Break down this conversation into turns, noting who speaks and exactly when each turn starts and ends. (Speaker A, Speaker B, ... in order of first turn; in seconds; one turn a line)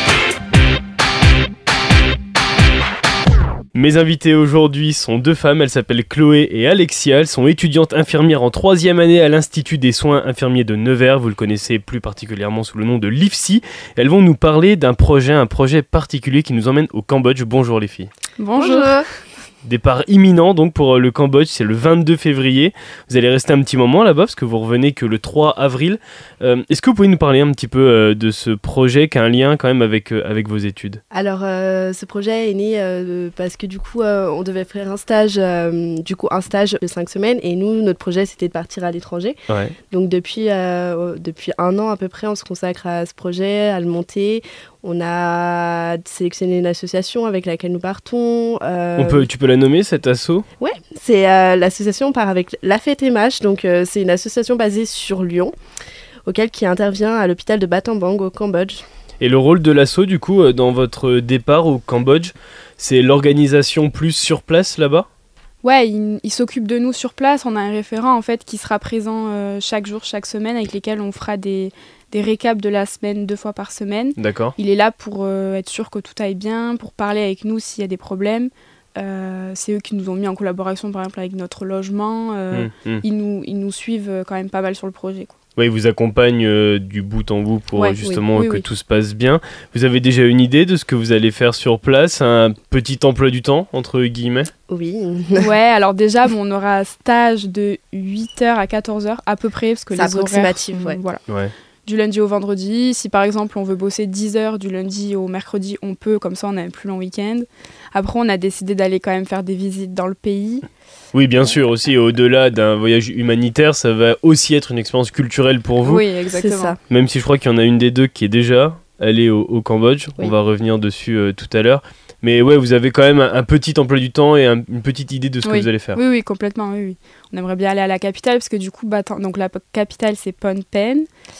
Speaker A: 3.7-18.1
Speaker B: 18.4-19.0
Speaker C: 18.6-19.1
Speaker A: 19.6-31.0
Speaker C: 31.1-39.4
Speaker A: 39.5-39.7
Speaker C: 39.9-49.3
Speaker A: 49.0-50.4
Speaker C: 50.6-55.5
Speaker C: 56.2-58.8
Speaker A: 59.2-65.1
Speaker B: 65.6-85.3
Speaker A: 74.2-74.5
Speaker A: 82.5-83.0
Speaker A: 85.5-94.5
Speaker B: 87.7-88.6
Speaker C: 94.7-95.5
Speaker B: 95.4-101.2
Speaker C: 99.9-101.0
Speaker A: 101.3-101.5
Speaker B: 101.8-110.7
Speaker A: 111.1-116.0
Speaker B: 115.8-116.8
Speaker C: 116.3-116.8
Speaker A: 116.9-126.0
Speaker B: 125.4-131.1